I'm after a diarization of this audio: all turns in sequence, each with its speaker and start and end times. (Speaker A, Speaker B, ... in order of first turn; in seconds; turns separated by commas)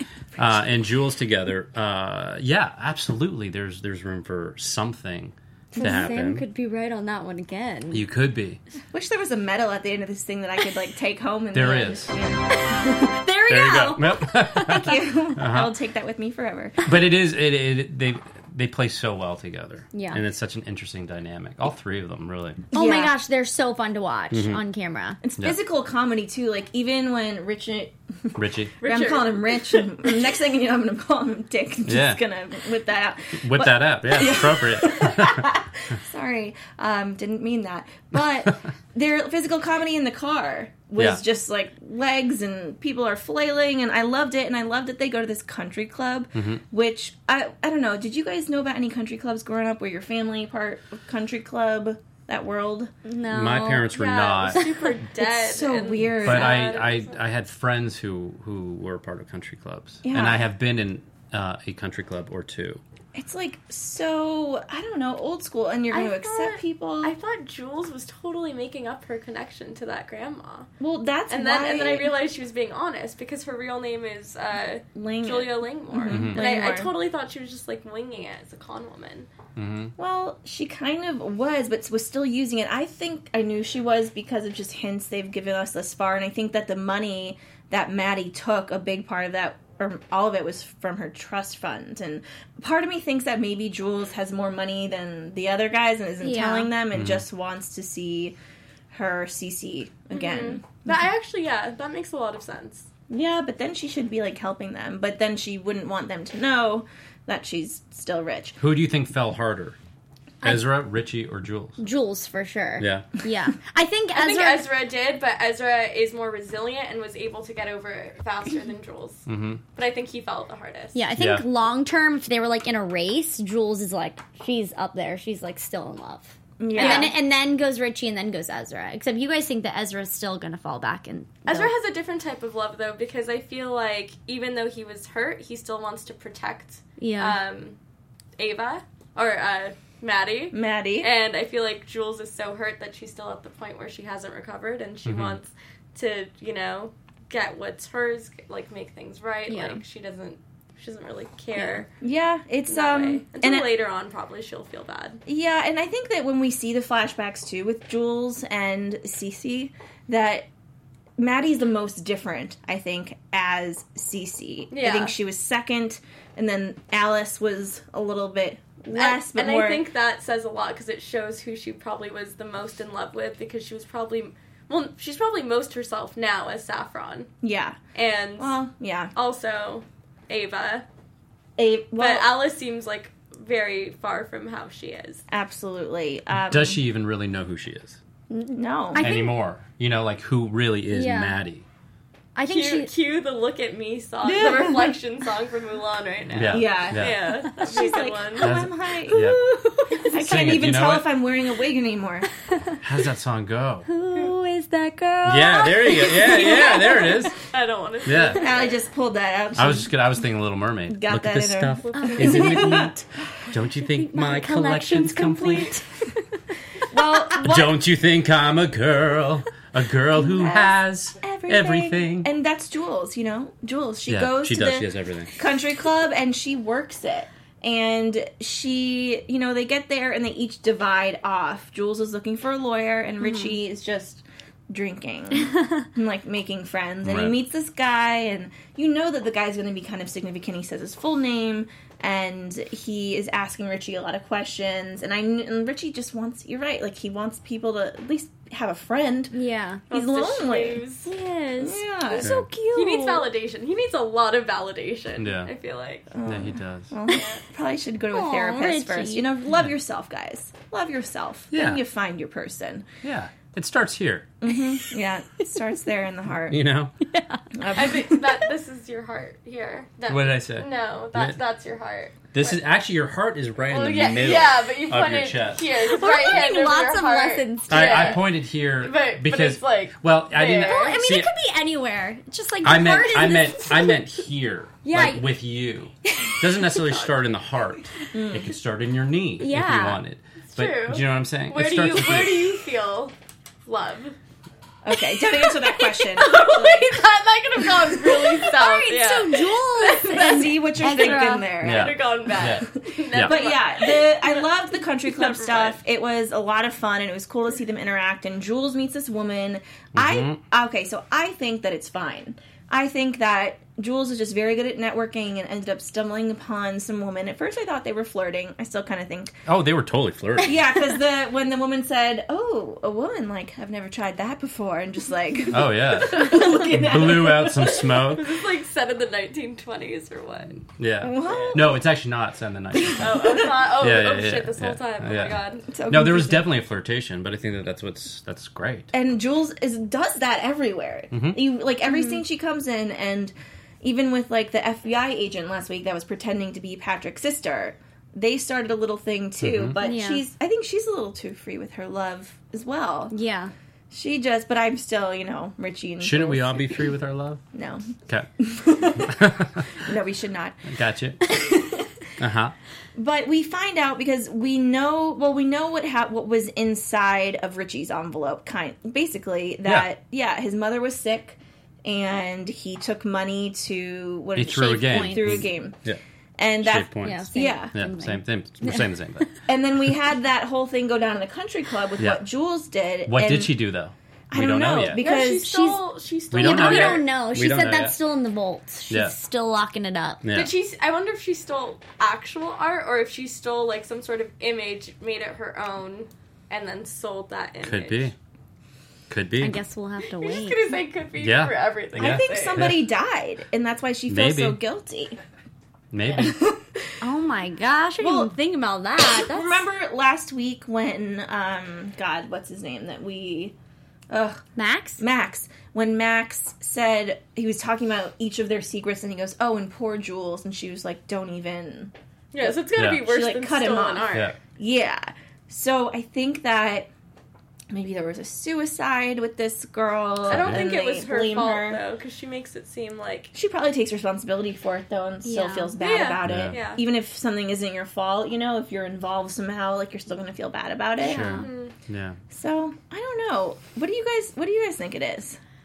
Speaker A: 0.4-6.5, Speaker B: 5.7-8.0, Speaker A: 7.9-8.6, Speaker C: 8.9-12.4, Speaker A: 11.5-12.1, Speaker B: 12.7-14.9, Speaker A: 13.5-15.7, Speaker C: 14.6-16.8, Speaker A: 16.8-22.6, Speaker B: 19.9-20.2, Speaker C: 22.7-23.1, Speaker B: 22.7-25.2, Speaker A: 24.3-24.6, Speaker C: 25.2-52.9, Speaker A: 28.4-28.7, Speaker D: 28.8-29.9, Speaker A: 31.9-32.2, Speaker A: 33.4-35.5, Speaker A: 41.0-41.2, Speaker A: 46.4-46.6, Speaker B: 53.0-55.0, Speaker A: 53.3-54.6, Speaker D: 53.9-57.2, Speaker C: 55.2-56.7, Speaker A: 56.2-62.8, Speaker C: 60.0-60.5, Speaker C: 63.1-67.1, Speaker D: 65.9-70.7, Speaker C: 70.8-72.1, Speaker D: 71.3-79.3, Speaker C: 75.0-76.9, Speaker A: 76.1-76.4, Speaker A: 79.6-79.9, Speaker C: 80.0-98.4, Speaker B: 96.2-96.7, Speaker A: 96.9-97.2, Speaker C: 98.9-101.0, Speaker D: 100.1-102.9, Speaker C: 103.1-108.6, Speaker A: 108.6-109.8, Speaker A: 110.4-111.8, Speaker B: 111.8-114.7, Speaker A: 112.8-113.1, Speaker D: 114.1-121.0, Speaker A: 119.3-119.6, Speaker B: 121.0-131.7, Speaker A: 121.2-121.5, Speaker C: 126.6-127.1, Speaker D: 126.8-127.1, Speaker D: 131.5-137.8, Speaker B: 137.0-137.4, Speaker D: 138.4-151.9, Speaker C: 140.5-141.1, Speaker A: 145.1-145.4, Speaker B: 149.5-149.8, Speaker B: 151.6-151.8, Speaker C: 152.0-153.7, Speaker D: 152.7-155.2, Speaker C: 155.3-160.5, Speaker C: 161.2-169.8, Speaker D: 164.7-165.2, Speaker D: 168.9-177.3, Speaker C: 177.4-177.8, Speaker D: 177.9-178.6, Speaker C: 178.4-179.1, Speaker D: 179.2-180.9, Speaker C: 181.6-182.3, Speaker D: 182.0-185.2, Speaker C: 185.3-186.8, Speaker A: 186.3-188.0, Speaker B: 188.3-189.3, Speaker C: 188.4-189.1, Speaker A: 189.0-191.7, Speaker B: 190.9-191.4, Speaker B: 192.3-192.9, Speaker D: 192.5-198.5, Speaker C: 194.2-195.0, Speaker A: 196.3-197.2, Speaker C: 196.5-202.3, Speaker A: 198.4-199.4, Speaker A: 200.2-201.1, Speaker B: 202.5-202.8, Speaker A: 202.8-203.9, Speaker B: 203.9-207.3, Speaker A: 205.2-207.4, Speaker D: 206.3-208.8, Speaker A: 208.1-208.4, Speaker C: 208.4-209.9, Speaker A: 209.6-215.8, Speaker C: 210.9-213.0, Speaker D: 211.9-212.4, Speaker B: 211.9-212.9, Speaker B: 213.8-216.2, Speaker C: 216.9-217.8, Speaker A: 217.4-222.3, Speaker C: 220.2-249.3, Speaker A: 224.1-225.3, Speaker B: 233.2-233.5, Speaker A: 237.0-237.4, Speaker B: 249.3-249.8, Speaker D: 249.9-251.1, Speaker C: 249.9-250.8, Speaker B: 251.1-253.3, Speaker C: 251.6-252.3, Speaker A: 252.2-252.5, Speaker D: 252.7-256.1, Speaker A: 255.2-255.5, Speaker C: 256.1-262.9, Speaker A: 256.2-256.9, Speaker D: 257.1-257.4, Speaker B: 258.1-259.3, Speaker A: 261.5-261.8, Speaker A: 263.0-264.3, Speaker C: 264.4-266.6, Speaker A: 266.5-266.9, Speaker B: 267.1-267.4, Speaker C: 267.5-268.3, Speaker D: 267.7-272.6, Speaker A: 270.1-271.4, Speaker A: 272.3-275.7, Speaker D: 273.7-281.0, Speaker B: 275.8-278.2, Speaker A: 277.7-281.3, Speaker B: 280.6-284.0, Speaker A: 282.6-292.6, Speaker B: 284.8-285.3, Speaker B: 286.1-286.8, Speaker C: 288.1-288.5, Speaker B: 289.4-290.0, Speaker D: 290.5-293.1, Speaker D: 293.7-294.2, Speaker C: 294.8-297.0, Speaker D: 295.4-304.5, Speaker B: 298.4-301.5, Speaker C: 300.0-319.4, Speaker A: 301.6-303.4, Speaker D: 305.0-305.8, Speaker A: 309.9-310.4, Speaker A: 319.5-320.6, Speaker C: 320.4-327.8, Speaker A: 325.5-328.4, Speaker D: 327.5-330.6, Speaker A: 330.7-338.9, Speaker C: 331.0-331.8, Speaker D: 331.2-331.6, Speaker C: 332.9-333.3, Speaker D: 333.0-335.7, Speaker C: 335.7-336.5, Speaker C: 338.9-353.1, Speaker A: 341.1-341.4, Speaker B: 341.9-342.2, Speaker A: 349.4-349.8, Speaker B: 349.8-350.3, Speaker B: 353.1-353.5, Speaker C: 353.9-356.9, Speaker A: 356.0-357.4, Speaker C: 357.5-360.7, Speaker A: 358.9-359.7, Speaker A: 360.7-361.2, Speaker C: 361.3-361.9, Speaker A: 362.2-362.6, Speaker C: 362.9-375.8, Speaker A: 374.4-376.0, Speaker B: 374.4-375.5, Speaker C: 376.4-377.8, Speaker A: 376.6-379.3, Speaker B: 377.0-378.9, Speaker C: 379.5-383.6, Speaker A: 383.1-385.0, Speaker C: 384.3-385.5, Speaker D: 385.0-387.1, Speaker B: 385.4-385.8, Speaker A: 386.3-388.0, Speaker B: 386.3-390.2, Speaker A: 388.9-389.1, Speaker A: 390.2-390.5, Speaker D: 390.3-398.1, Speaker A: 397.6-398.1, Speaker A: 399.1-399.6, Speaker B: 399.4-400.8, Speaker D: 400.1-402.7, Speaker A: 401.2-402.9, Speaker C: 402.0-405.2, Speaker A: 404.1-404.6, Speaker A: 405.9-406.4, Speaker C: 406.1-407.0, Speaker B: 407.0-409.6, Speaker C: 408.0-408.3, Speaker C: 409.0-413.6, Speaker C: 414.1-414.4, Speaker B: 414.6-415.0, Speaker C: 415.0-426.9, Speaker D: 422.3-424.3, Speaker A: 422.8-423.1, Speaker C: 427.7-431.8, Speaker A: 430.3-430.7, Speaker D: 430.3-433.3, Speaker C: 433.3-441.4, Speaker B: 435.2-435.8, Speaker D: 435.8-436.8, Speaker A: 436.2-436.6, Speaker B: 441.0-441.5, Speaker A: 441.0-442.2, Speaker D: 441.2-441.7, Speaker C: 442.3-445.4